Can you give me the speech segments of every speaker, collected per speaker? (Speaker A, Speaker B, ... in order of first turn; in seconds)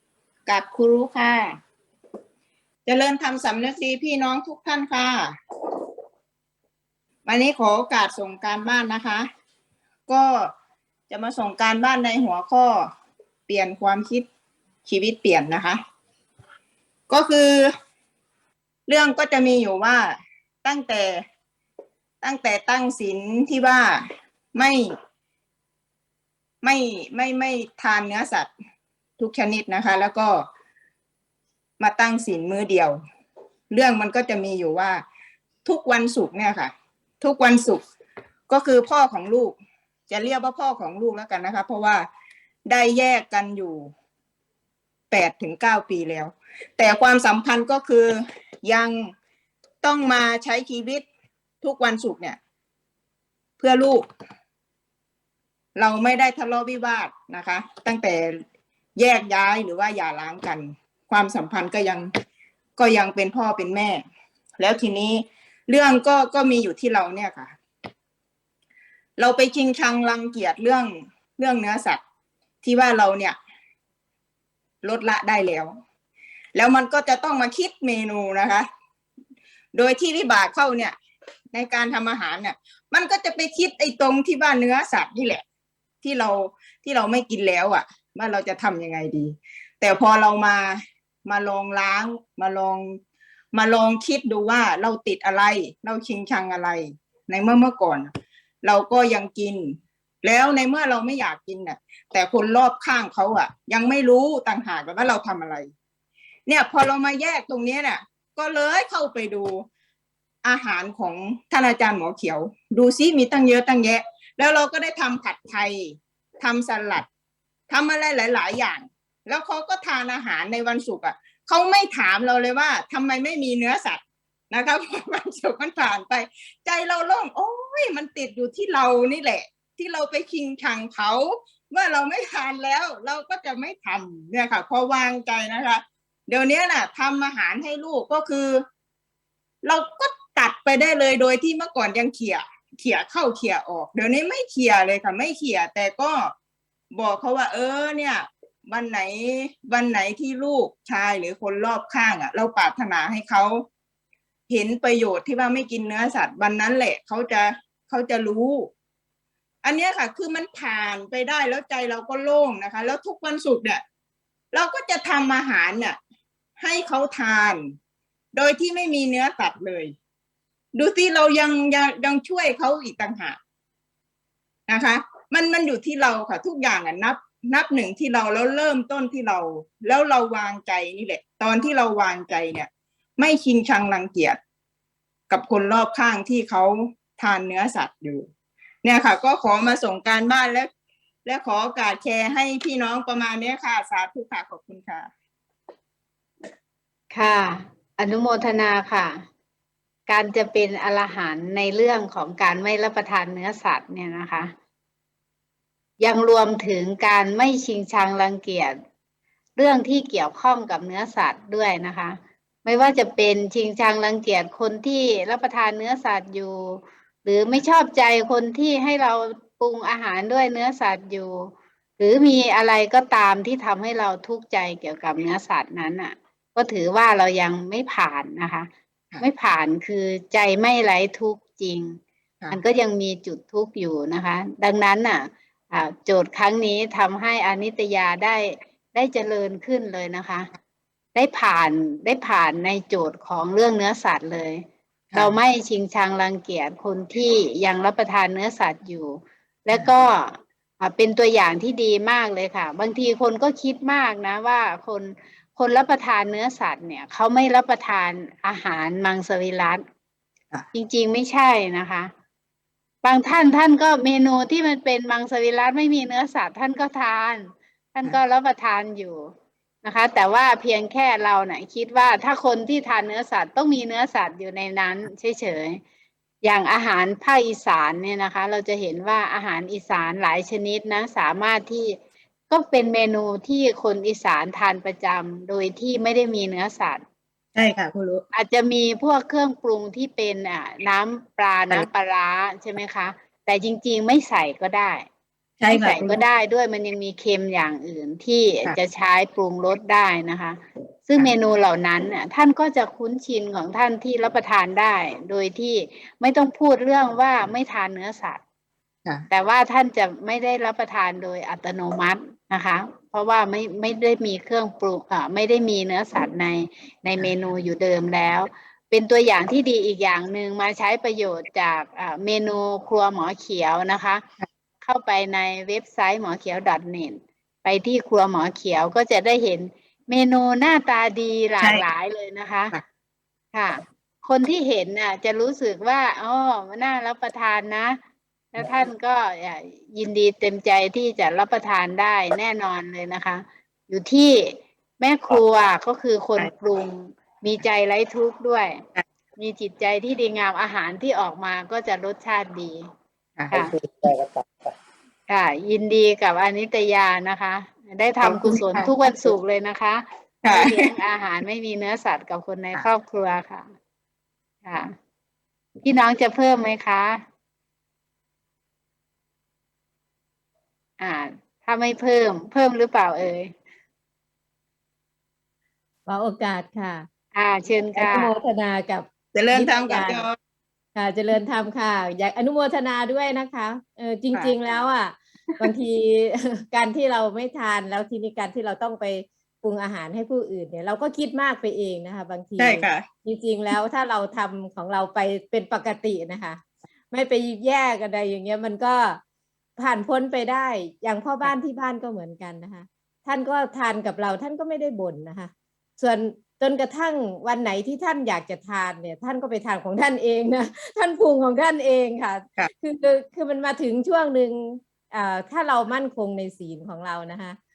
Speaker A: 0.5-1.6, 2.9-5.3, 7.3-9.2, 10.1-10.5, 11.1-12.9, 13.5-14.3, 14.9-15.8, 17.1-17.7, 18.9-21.2, 22.2-24.0, 24.6-24.8, 26.6-28.5, 29.2-30.4, 31.8-33.0, 33.7-35.0, 35.6-37.8, 38.5-39.6, 40.1-42.1, 42.7-43.9, 45.1-49.1, 49.8-51.0, 51.6-52.4, 53.6-54.0, 55.8-58.4, 59.0-62.1, 62.8-64.0, 64.6-67.5, 69.2-72.0, 72.6-73.4, 74.8-75.7, 76.5-78.7, 79.7-81.0, 81.5-85.4, 86.0-93.0, 93.5-98.1, 98.6-105.7, 106.5-109.6, 110.4-117.1, 117.7-138.6, 139.6-146.3, 146.9-153.7, 154.5-158.7, 159.6-163.8, 164.5-166.0, 166.6-167.6, 168.3-169.9, 170.7-173.4, 174.7-184.4, 185.3-188.3, 188.8-190.7, 191.3-195.1, 245.1-245.4, 287.6-288.2, 295.6-296.2, 353.4-354.4, 358.2-358.9, 360.4-360.9, 379.3-380.4, 392.6-393.1
Speaker B: 197.1-199.2, 200.1-204.5, 206.0-208.8, 209.6-228.7, 229.2-232.0, 232.5-240.5, 241.2-244.6, 245.1-259.8, 260.7-262.1, 263.0-269.3, 269.8-275.8, 276.4-282.0, 282.5-287.0, 288.3-295.1, 295.7-308.4, 309.3-324.2, 324.8-332.8, 333.5-338.0, 338.5-348.8, 349.4-352.8, 355.3-363.7, 364.6-364.9, 365.8-367.2, 371.0-373.5, 377.3-378.3
Speaker C: 376.1-377.1, 377.9-380.2, 380.9-399.2, 399.8-417.6